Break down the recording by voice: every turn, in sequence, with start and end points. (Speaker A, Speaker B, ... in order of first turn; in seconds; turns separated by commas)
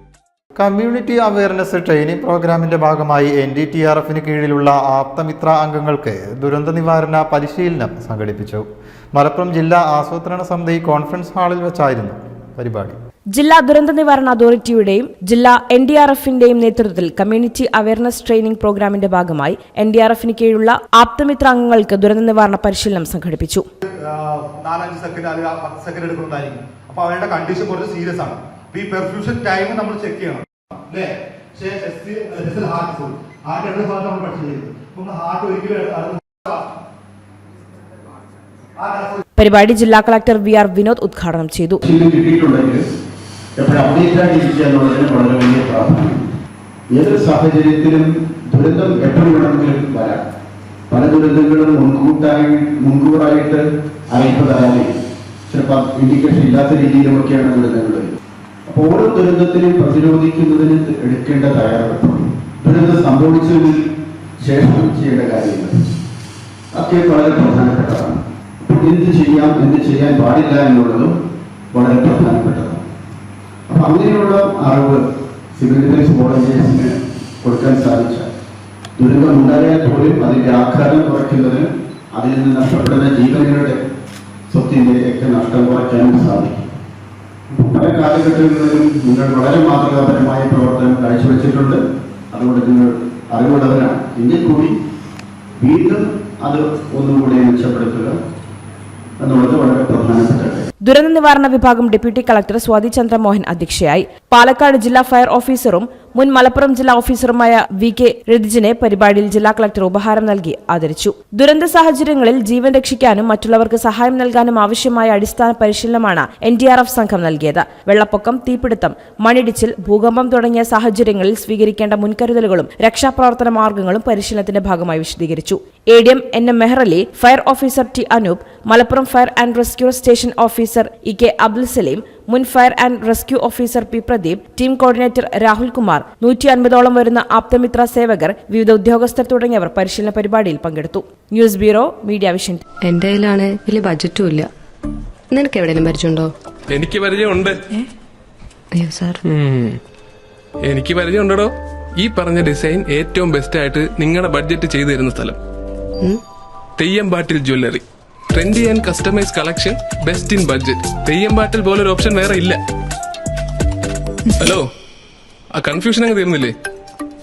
Speaker A: 0.6-13.0, Speaker B: 13.3-23.7, Speaker C: 23.9-36.7, Speaker C: 38.8-39.2, Speaker B: 39.4-41.8, Speaker D: 41.8-42.8, Speaker D: 43.6-46.4, Speaker D: 46.9-50.2, Speaker D: 50.9-55.0, Speaker D: 55.5-63.9, Speaker D: 64.4-65.9, Speaker D: 66.7-71.1, Speaker D: 71.7-72.8, Speaker D: 73.7-75.0, Speaker D: 75.6-78.3, Speaker D: 79.0-83.9, Speaker D: 84.5-86.8, Speaker D: 87.5-91.8, Speaker D: 92.3-94.8, Speaker D: 95.6-98.2, Speaker D: 99.2-100.7, Speaker B: 100.8-142.6, Speaker E: 142.8-144.5, Speaker E: 145.3-146.3, Speaker F: 146.7-147.6, Speaker E: 148.7-149.2, Speaker F: 149.3-149.8, Speaker F: 150.6-155.4, Speaker F: 156.8-162.6, Speaker F: 164.4-164.7, Speaker F: 165.5-166.5